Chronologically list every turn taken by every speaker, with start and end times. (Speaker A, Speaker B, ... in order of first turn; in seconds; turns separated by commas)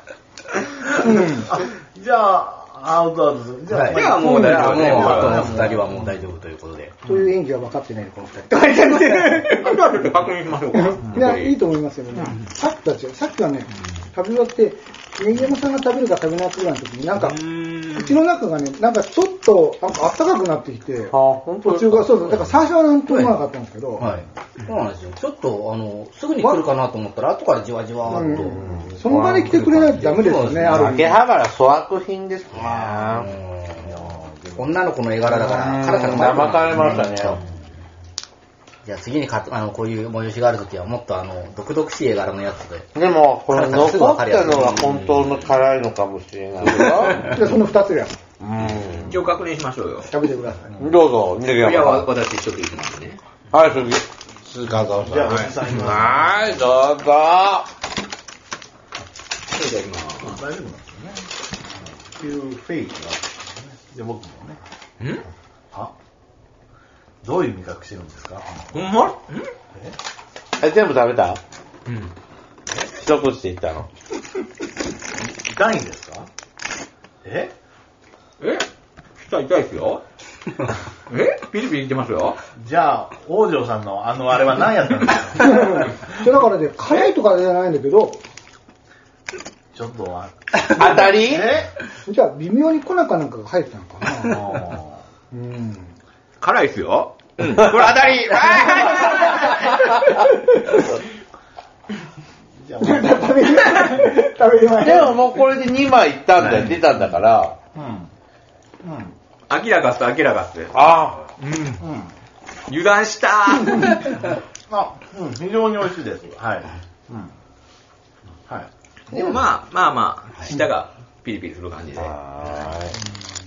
Speaker A: 0.9-5.9, Speaker B: 3.7-7.0, Speaker C: 3.8-5.8, Speaker D: 7.1-9.8, Speaker C: 8.9-11.6, Speaker D: 10.9-17.4, Speaker C: 17.2-18.2, Speaker D: 17.9-24.1, Speaker E: 21.1-22.2, Speaker B: 23.1-23.4, Speaker B: 24.0-31.1, Speaker D: 28.1-31.1, Speaker E: 28.6-29.9, Speaker E: 30.6-33.3, Speaker A: 32.5-33.2, Speaker B: 33.1-33.9, Speaker A: 33.8-34.8, Speaker B: 34.6-37.5, Speaker E: 35.2-37.4, Speaker B: 38.9-42.9, Speaker E: 43.0-47.4, Speaker B: 43.5-45.1, Speaker C: 45.1-45.4, Speaker D: 47.3-48.1, Speaker E: 48.4-49.2, Speaker C: 48.6-50.1, Speaker D: 50.1-50.7, Speaker A: 50.7-51.0, Speaker E: 50.8-52.1, Speaker C: 51.5-53.2, Speaker E: 53.5-57.7, Speaker A: 55.0-56.4, Speaker C: 59.5-60.4, Speaker A: 60.2-64.6, Speaker C: 65.0-65.2, Speaker A: 67.2-69.0, Speaker C: 68.7-69.5, Speaker E: 70.6-71.4, Speaker C: 71.9-72.1, Speaker E: 72.8-73.9, Speaker A: 75.2-76.3, Speaker A: 77.2-77.5, Speaker C: 78.4-78.7, Speaker C: 79.2-80.0, Speaker C: 81.1-82.4, Speaker A: 82.6-87.1, Speaker D: 85.4-88.2, Speaker A: 89.7-91.8, Speaker E: 90.7-91.5, Speaker D: 92.0-94.4, Speaker A: 94.2-95.0, Speaker D: 95.3-95.9, Speaker C: 96.4-100.3, Speaker A: 102.6-103.6, Speaker D: 102.8-105.2, Speaker E: 104.8-107.6, Speaker A: 107.8-108.1, Speaker A: 108.8-109.1, Speaker C: 109.5-110.8, Speaker E: 110.7-111.2, Speaker C: 111.4-111.8, Speaker A: 111.8-112.1, Speaker C: 112.7-114.3, Speaker A: 114.7-117.3, Speaker C: 119.1-122.7, Speaker E: 122.0-123.0